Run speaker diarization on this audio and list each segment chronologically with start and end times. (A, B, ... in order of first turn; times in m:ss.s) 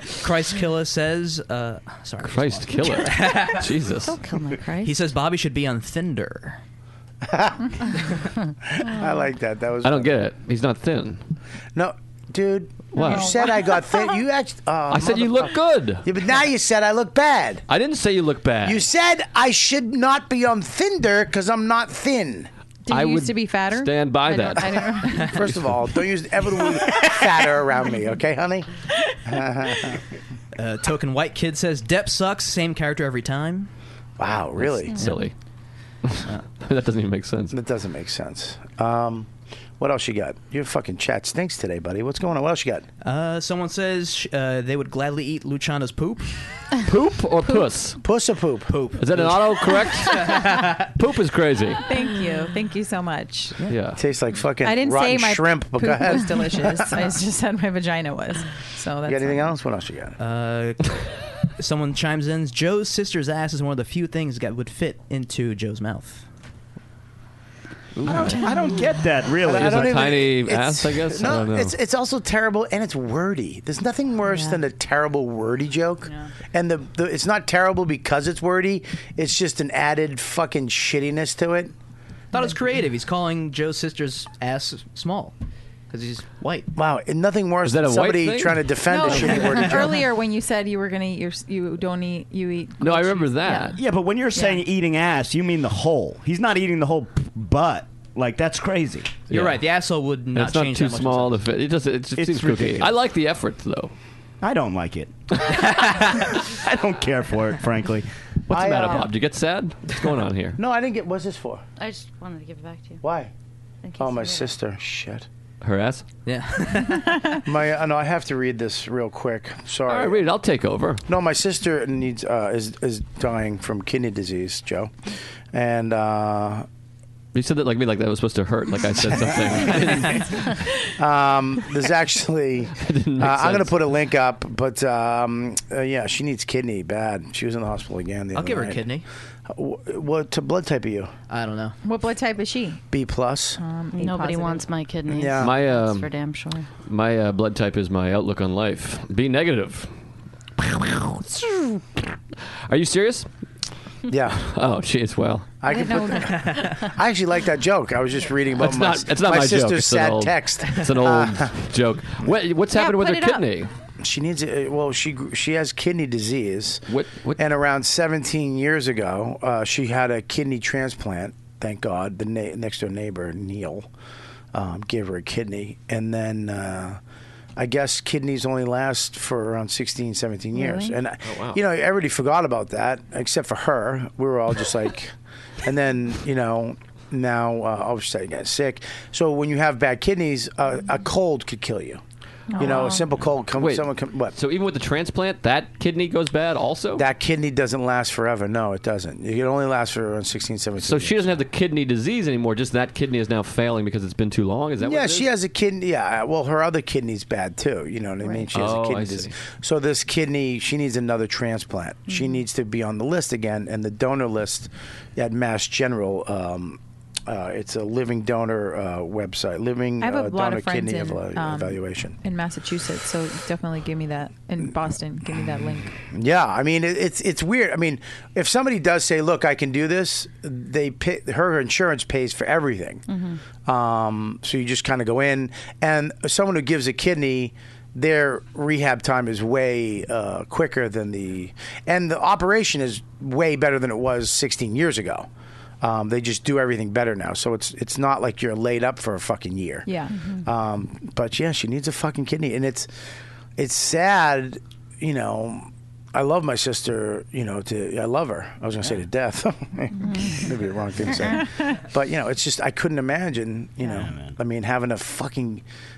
0:00.2-0:03.7 A
0:02.2-0:04.2 B
0:04.0-0:04.9 C
0:04.8-0:06.6 A
0:07.2-0:07.7 D
0:08.7-0:10.1 D
0:09.8-0:11.2 B
0:11.8-0:17.7 D
0:13.0-0:13.3 B
0:13.1-0:13.7 E
0:14.9-0:16.1 B
0:17.7-0:18.8 B
0:18.6-0:22.5 D
0:22.9-0:25.4 E
0:22.9-0:25.4 B
0:25.2-0:28.7 D
0:29.2-0:30.0 D
0:30.6-0:33.7 A
0:34.2-0:35.0 D
0:34.6-0:35.3 B
0:36.0-0:37.5 B
0:37.5-0:42.9 D
0:43.0-0:46.5 A
0:46.8-0:48.0 B
0:48.0-0:48.8 D
0:48.7-0:50.9 A
0:49.0-0:51.8 B
0:51.8-0:53.6 E
0:53.7-0:54.0 B
0:54.0-0:56.9 D
0:54.6-0:59.5 E
0:59.1-1:00.2 D
1:00.2-1:01.1 A
1:01.6-1:06.2 A
1:08.0-1:08.4 B
1:08.0-1:10.0 F
1:09.4-1:21.7 D
1:09.5-1:11.7 B
1:16.1-1:16.3 E
1:22.3-1:25.3 A
1:25.9-1:26.7 A
1:26.8-1:30.0 D
1:27.6-1:28.8 B
1:28.9-1:33.7 E
1:32.8-1:33.8 B
1:33.5-1:33.7 C
1:33.8-1:39.3 F
1:34.4-1:34.6 E
1:39.3-1:39.6 B
1:39.3-1:41.4 A
1:40.3-1:43.9 B
1:42.2-1:42.9 F
1:44.4-1:48.1 F
1:48.5-1:50.6 B
1:48.5-1:49.1 D
1:50.6-1:51.6 D
1:51.8-1:53.0 C
1:53.0-1:53.3 D
1:53.8-1:54.5 C
1:54.0-1:55.3 D
1:55.6-1:56.0 B
1:56.2-1:57.4 A
1:57.4-2:00.2 D
1:59.9-2:01.0 B
2:01.1-2:04.9 D
2:05.5-2:06.7 D
2:07.3-2:10.5 B
2:11.0-2:18.9 D
2:12.8-2:13.8 B
2:18.3-2:19.0 A
2:19.5-2:21.1 D
2:21.3-2:21.8 A
2:21.8-2:22.8 E
2:22.9-2:23.6 D
2:23.6-2:24.7 E
2:23.9-2:26.7 C
2:25.1-2:25.6 D
2:25.4-2:26.1 B
2:26.8-2:29.9 B
2:30.6-2:32.1 B
2:32.7-2:33.3 B
2:34.1-2:34.5 D
2:34.4-2:35.5 B
2:35.6-2:41.5 D
2:35.7-2:36.4 E
2:36.4-2:36.7 A
2:38.6-2:43.7 B
2:42.8-2:43.4 E
2:42.8-2:43.4 C
2:44.0-2:46.9 D
2:46.9-2:47.4 B
2:47.4-2:53.9 D
2:54.5-2:57.0 D
2:57.6-3:12.0 D
3:00.6-3:00.9 E
3:01.2-3:01.6 B
3:12.5-3:13.0 E
3:12.6-3:14.4 D
3:13.6-3:17.0 B
3:17.0-3:21.4 D
3:20.8-3:25.3 B
3:24.8-3:42.2 D
3:28.5-3:29.3 B
3:40.0-3:46.0 E
3:46.0-3:53.1 D
3:53.1-3:53.4 C
3:53.6-4:05.3 D
4:05.8-4:09.9 D
4:09.9-4:10.1 E
4:10.4-4:12.9 D
4:13.6-4:25.6 D
4:20.1-4:20.4 C
4:23.9-4:24.4 F